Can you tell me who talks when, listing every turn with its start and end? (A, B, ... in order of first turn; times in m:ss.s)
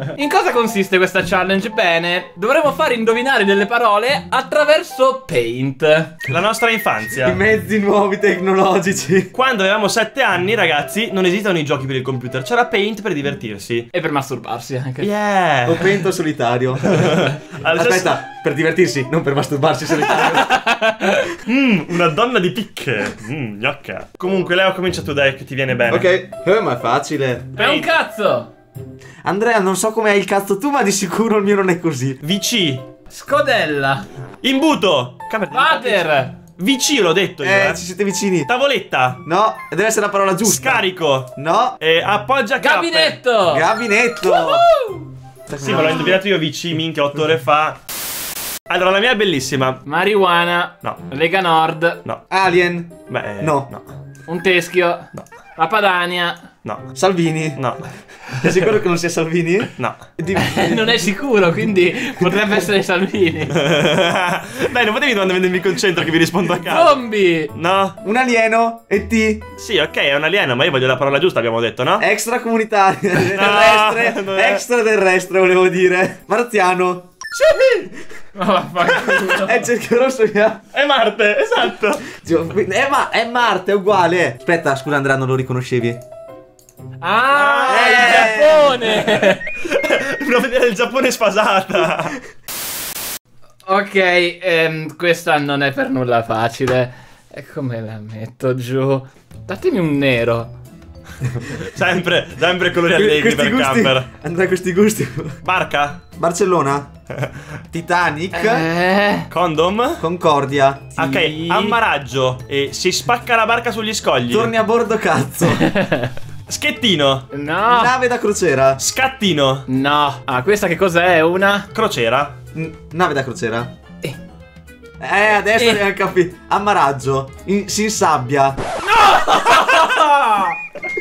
0:00.1-0:06.2 A
0:06.3-0:07.4 B
0:07.1-0:09.3 C
0:09.3-0:13.9 B
0:13.9-0:15.1 A
0:15.0-0:16.0 B
0:15.7-0:20.6 C
0:16.8-0:18.2 B
0:20.4-0:21.3 A
0:21.4-0:26.1 B
0:25.9-0:27.6 C
0:27.6-0:27.9 B
0:27.6-0:28.5 A
0:29.2-0:32.2 C
0:32.2-0:32.8 B
0:33.1-0:34.1 A
0:34.4-0:37.8 B
0:35.5-0:36.4 A
0:37.4-0:38.5 C
0:38.5-0:39.2 B
0:39.2-0:40.8 C
0:40.4-0:43.2 B
0:41.4-0:41.8 C
0:42.6-0:43.7 A
0:43.5-0:44.7 C
0:44.2-0:45.1 A
0:45.5-0:46.2 C
0:45.6-0:47.8 B
0:45.6-0:46.2 A
0:48.7-0:49.8 B
0:49.8-0:52.0 A
0:52.3-0:53.7 C
0:53.1-0:53.9 B
0:54.3-0:56.4 A
0:56.6-0:56.9 B
0:57.0-0:57.6 C
0:57.6-0:57.9 B
0:58.4-1:01.1 C
0:59.8-1:00.0 B
1:00.4-1:03.6 A
1:02.2-1:02.5 C
1:03.5-1:07.0 B
1:06.6-1:07.5 A
1:07.5-1:08.0 B
1:08.0-1:09.4 C
1:09.6-1:12.0 B
1:12.0-1:17.1 C
1:13.2-1:14.6 B
1:17.3-1:18.0 B
1:18.4-1:19.6 A
1:19.0-1:20.6 C
1:20.7-1:22.1 B
1:22.1-1:26.0 C
1:27.0-1:29.4 A
1:27.3-1:32.2 B
1:27.7-1:28.8 C
1:33.7-1:40.5 A
1:41.3-1:41.5 C
1:41.5-1:44.1 B
1:42.9-1:45.4 C
1:45.4-1:46.0 B
1:46.2-1:46.9 C
1:47.2-1:47.4 B
1:47.7-1:48.7 C
1:48.3-1:49.3 A
1:49.3-1:50.0 B
1:50.0-1:50.9 C
1:51.0-1:54.5 B
1:51.0-1:51.8 A
1:54.3-1:55.7 C
1:55.6-1:56.1 A
1:56.5-1:57.3 B
1:57.3-1:58.0 A
1:57.7-1:58.8 C
1:58.8-1:59.7 B
1:59.7-2:01.7 A
2:01.7-2:02.4 B
2:02.5-2:03.7 C
2:05.0-2:08.6 C
2:08.8-2:10.6 A